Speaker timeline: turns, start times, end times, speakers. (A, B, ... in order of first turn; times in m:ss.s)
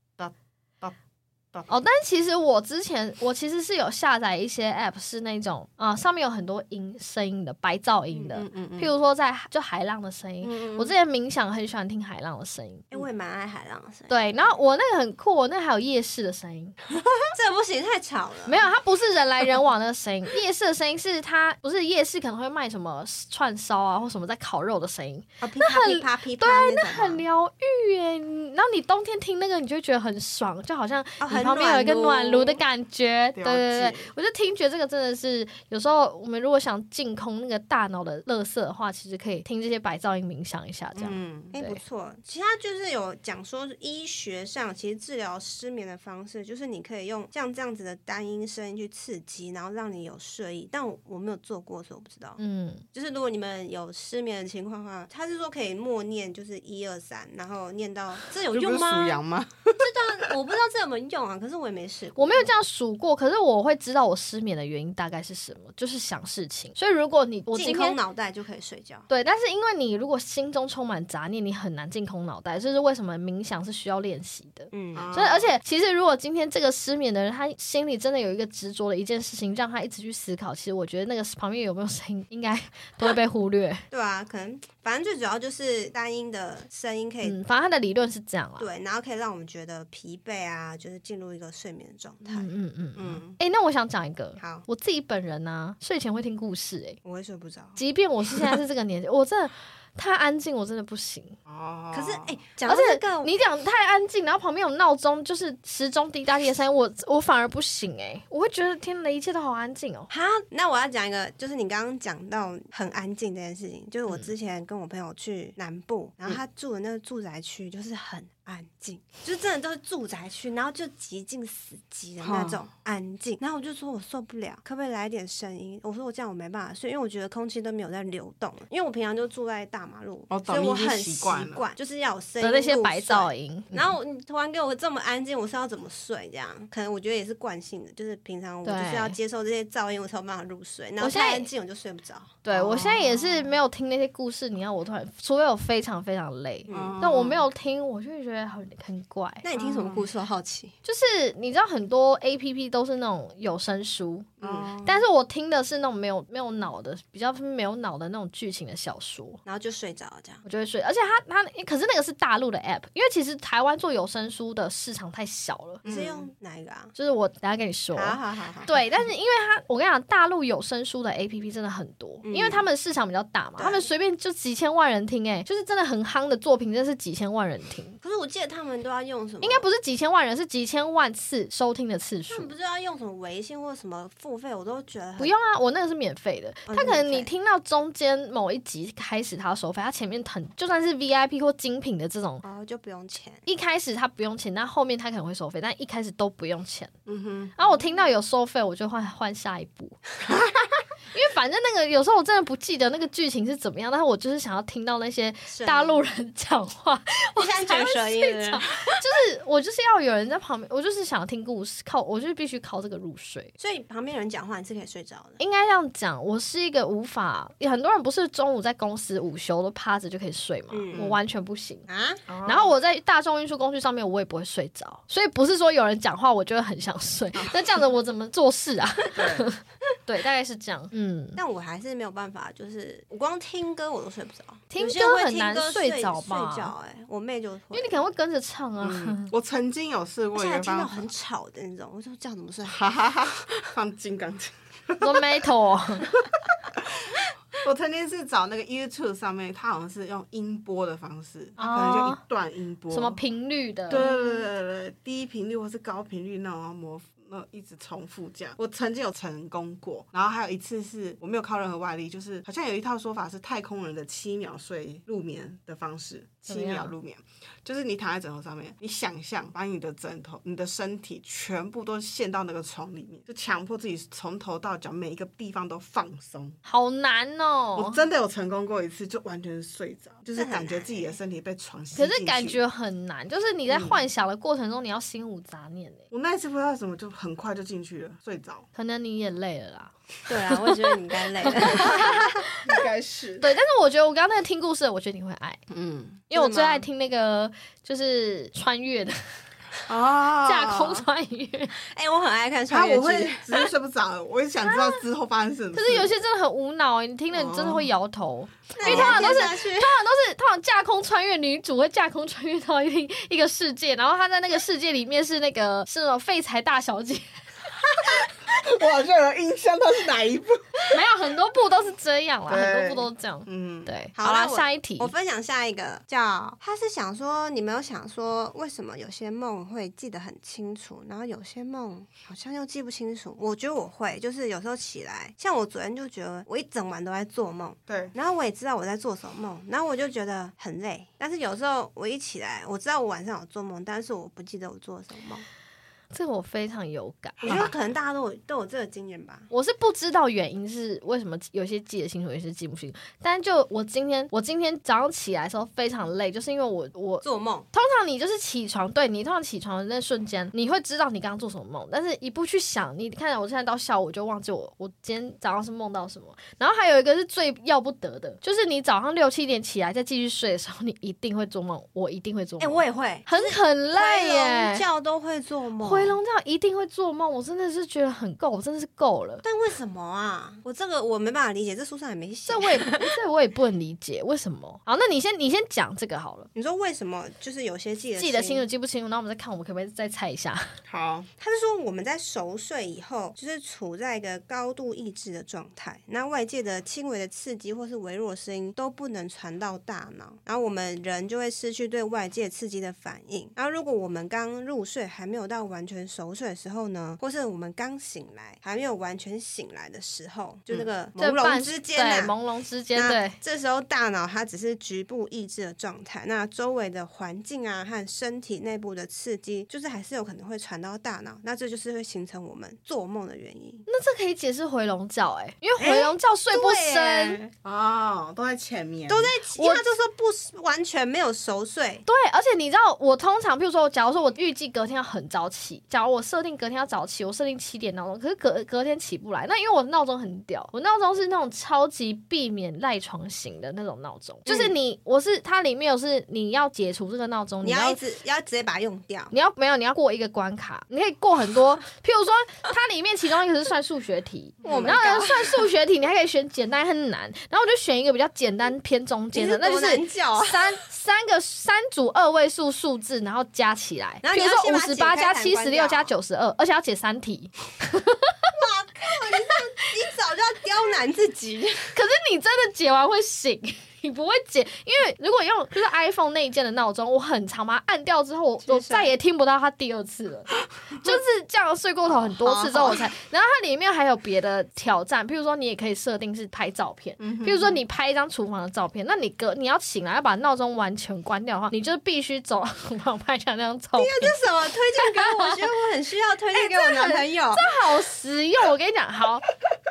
0:00.2-0:00.9 A
0:01.7-0:12.9 B
0:08.3-0:08.9 A
0:10.4-0:11.0 A
0:12.9-0:14.5 C
0:14.1-0:16.8 B
0:17.0-0:17.2 A
0:17.3-0:18.7 C
0:18.5-0:41.8 B
0:25.4-0:27.2 C
0:31.2-0:32.6 C
0:33.4-0:34.1 A
0:41.0-0:41.5 A
0:41.5-0:52.4 C
0:52.4-0:52.8 B
0:52.9-0:59.2 C
0:58.5-1:00.3 A
0:59.8-1:02.5 C
1:02.2-1:08.0 B
1:07.5-1:09.1 C
1:09.1-1:23.8 B
1:14.7-1:15.1 C
1:15.0-1:15.5 A
1:23.9-1:27.4 C
1:27.2-1:28.7 B
1:28.6-1:32.5 C
1:32.2-1:37.0 B
1:33.0-1:33.4 A
1:34.4-1:34.7 C
1:37.0-1:37.8 C
1:37.8-1:41.4 B
1:41.5-1:42.3 A
1:41.9-1:43.3 C
1:42.7-1:50.1 B
1:50.1-2:22.4 C
2:02.2-2:02.6 A
2:10.3-2:11.6 A
2:12.4-2:13.9 B
2:18.6-2:19.2 B
2:21.0-2:21.5 B
2:22.4-2:29.4 B
2:22.5-2:23.5 A
2:26.7-2:27.0 C
2:26.7-2:27.5 A
2:29.4-2:30.8 C
2:29.6-2:30.0 A
2:30.8-2:34.3 B
2:34.4-2:34.8 A
2:34.4-2:35.0 C
2:34.8-2:39.4 B
2:39.5-2:40.4 C
2:40.4-2:45.8 B
2:45.8-2:46.3 A
2:45.8-2:46.9 C
2:47.0-2:58.0 B
2:47.9-2:48.8 C
2:52.2-2:52.7 C
2:53.6-2:53.9 C
2:58.0-2:59.7 C
2:59.4-3:02.5 B
3:02.3-3:05.3 C
3:05.2-3:12.4 B
3:06.7-3:07.3 C
3:12.4-3:13.4 C
3:13.5-3:16.9 B
3:17.1-3:17.6 A
3:17.6-3:20.0 B
3:20.3-3:20.7 A
3:21.1-3:33.5 B
3:25.5-3:26.1 C
3:27.4-3:29.0 C
3:33.6-3:35.4 C
3:35.4-3:41.9 B
3:40.7-3:41.1 C
3:41.9-3:42.2 C
3:42.3-3:42.7 A
3:42.4-3:51.4 B
3:49.1-3:49.5 A
3:51.4-3:58.0 C
3:54.7-3:56.7 B
3:57.7-3:59.3 B
3:58.8-4:00.9 A
4:00.3-4:02.8 C
4:02.7-4:05.2 A
4:05.0-4:06.1 B
4:06.2-4:13.2 A
4:11.6-4:12.2 B
4:12.9-4:14.1 B
4:13.9-4:36.6 A
4:26.5-4:26.9 B
4:36.6-4:38.0 B
4:37.8-4:42.6 A
4:40.4-4:41.2 C
4:42.0-4:46.1 B
4:43.7-4:44.0 A
4:46.1-4:48.7 A
4:48.8-4:49.9 B
4:50.3-4:52.4 C
4:50.5-4:50.8 B
4:51.4-4:52.7 B
4:51.6-4:52.1 A
4:52.6-4:53.5 A
4:53.4-4:55.6 B
4:55.7-4:56.2 A
4:56.3-4:59.2 B
4:56.3-4:56.9 C
4:59.9-5:01.0 A
5:00.4-5:01.8 B
5:01.9-5:03.7 C
5:02.7-5:06.1 A
5:04.6-5:05.0 B
5:05.7-5:17.4 B
5:07.3-5:07.9 A
5:08.8-5:10.0 C
5:08.8-5:09.5 A
5:18.0-5:21.0 A
5:20.9-5:25.1 B
5:22.5-5:23.9 A
5:24.2-5:45.5 C
5:37.9-5:38.1 A
5:46.1-5:47.6 B
5:47.4-5:47.7 A
5:47.4-5:49.5 C
5:49.5-6:14.8 B
5:57.2-5:57.7 C
6:12.6-6:16.2 C
6:15.8-6:19.4 B
6:19.4-6:23.1 C
6:22.5-6:26.5 B
6:26.6-6:28.7 C
6:28.2-6:30.7 B
6:30.9-6:31.3 A
6:31.4-6:52.4 C
6:51.2-6:53.4 B
6:53.0-7:03.9 C
7:03.9-7:07.4 B
7:05.8-7:07.4 C
7:07.5-7:09.3 A
7:09.1-7:12.0 C
7:09.5-7:09.8 B
7:12.0-7:28.0 B
7:24.5-7:24.7 C
7:27.6-7:29.3 C
7:29.3-7:48.4 B
7:34.6-7:34.9 A
7:34.6-7:35.6 C
7:39.3-7:40.7 C
7:44.2-7:46.1 C
7:48.5-7:52.0 C
7:51.9-8:14.4 B
7:58.6-7:59.1 C
8:02.3-8:03.1 C
8:07.2-8:07.8 A
8:14.0-8:17.7 C
8:15.0-8:15.6 B
8:16.5-8:19.5 B